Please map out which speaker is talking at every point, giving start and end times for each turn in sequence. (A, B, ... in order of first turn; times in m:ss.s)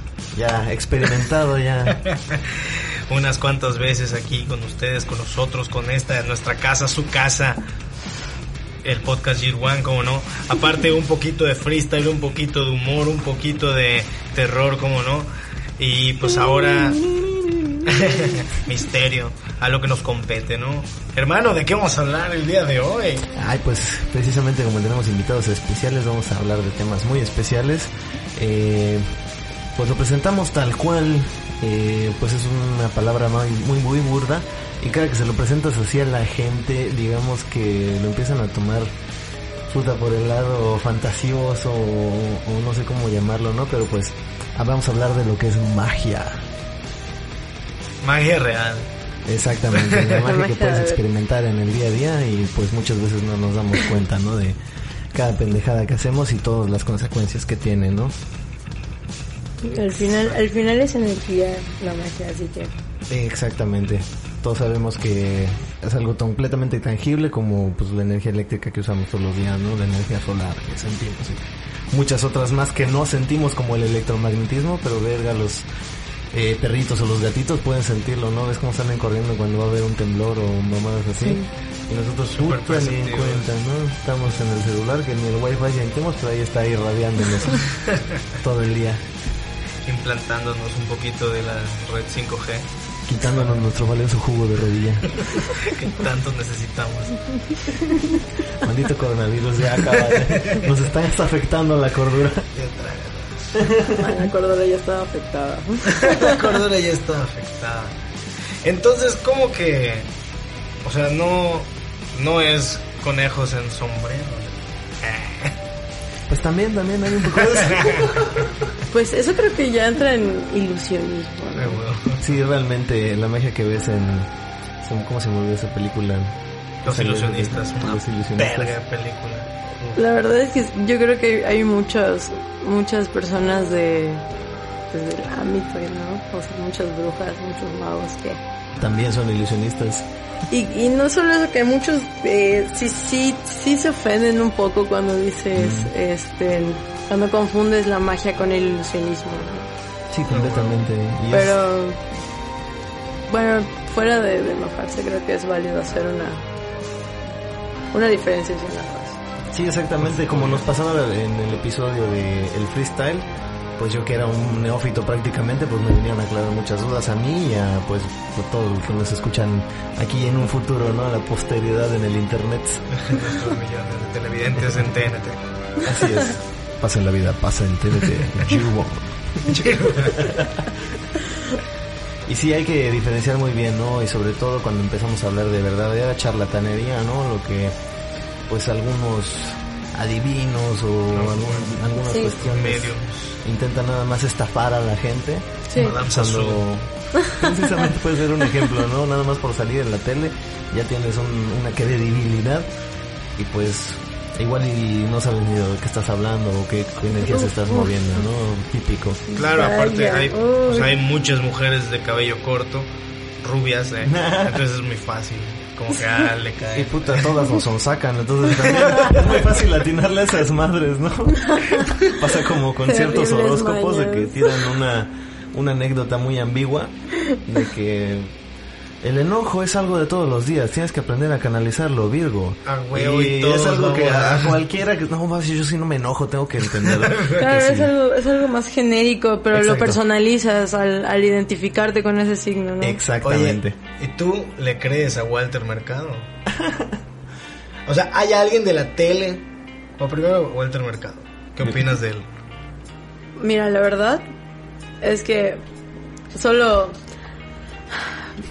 0:00.3-0:02.0 A
0:02.0-0:07.6 B
0:08.8-0:17.1 B
0:17.8-0:23.3 B
0:23.3-0:29.1 A
0:29.7-0:38.9 A
0:39.7-0:46.5 A
0:48.0-0:48.9 B
0:49.2-0:54.6 A
0:49.7-0:50.2 B
0:50.2-0:51.0 C
0:55.1-0:58.2 A
0:59.6-1:02.7 C
1:00.1-1:00.4 B
1:03.1-1:15.6 A
1:16.3-1:27.7 A
1:21.2-1:21.5 C
1:22.3-1:23.5 B
1:28.4-1:29.0 A
1:29.8-1:32.7 B
1:33.1-1:35.3 A
1:35.2-1:37.2 B
1:37.9-1:42.5 A
1:39.9-1:40.7 B
1:42.5-1:43.7 B
1:43.6-1:44.1 A
1:44.0-1:46.4 C
1:46.0-1:47.9 B
1:48.6-1:50.1 B
1:50.8-1:55.6 B
1:56.3-1:58.5 A
1:57.4-1:58.4 B
1:58.9-2:01.8 C
2:01.6-2:02.3 B
2:02.2-2:08.7 A
2:06.8-2:10.0 B
2:09.9-2:14.2 C
2:14.9-2:18.4 C
2:18.8-2:20.1 A
2:20.5-2:29.7 C
2:25.5-2:25.9 A
2:30.1-2:31.6 A
2:30.3-2:30.8 B
2:31.3-2:32.0 C
2:33.3-2:36.4 C
2:37.9-2:39.2 C
2:39.5-2:53.0 A
2:40.1-2:40.6 B
2:53.0-2:55.4 B
2:55.8-3:01.2 A
2:59.5-3:00.2 B
3:02.3-3:07.7 A
3:08.5-3:22.7 A
3:11.1-3:13.4 B
3:12.1-3:12.3 C
3:15.7-3:16.0 C
3:15.8-3:16.7 B
3:23.4-3:29.2 A
3:27.2-3:27.9 C
3:29.3-3:31.0 C
3:29.3-3:32.9 B
3:33.4-3:37.4 B
3:34.0-3:34.6 A
3:36.7-3:48.3 A
3:38.6-3:39.2 B
3:41.5-3:41.9 C
3:42.8-3:44.6 C
3:49.0-3:57.9 A
3:52.6-3:54.6 B
3:56.8-3:57.4 B
3:57.4-4:03.0 C
3:59.5-4:00.0 A
4:02.8-4:03.8 A
4:03.2-4:06.3 B
4:06.5-4:07.0 A
4:07.8-4:09.4 B
4:10.0-4:12.2 B
4:13.4-4:14.2 C
4:15.0-4:15.6 C
4:16.3-4:17.0 C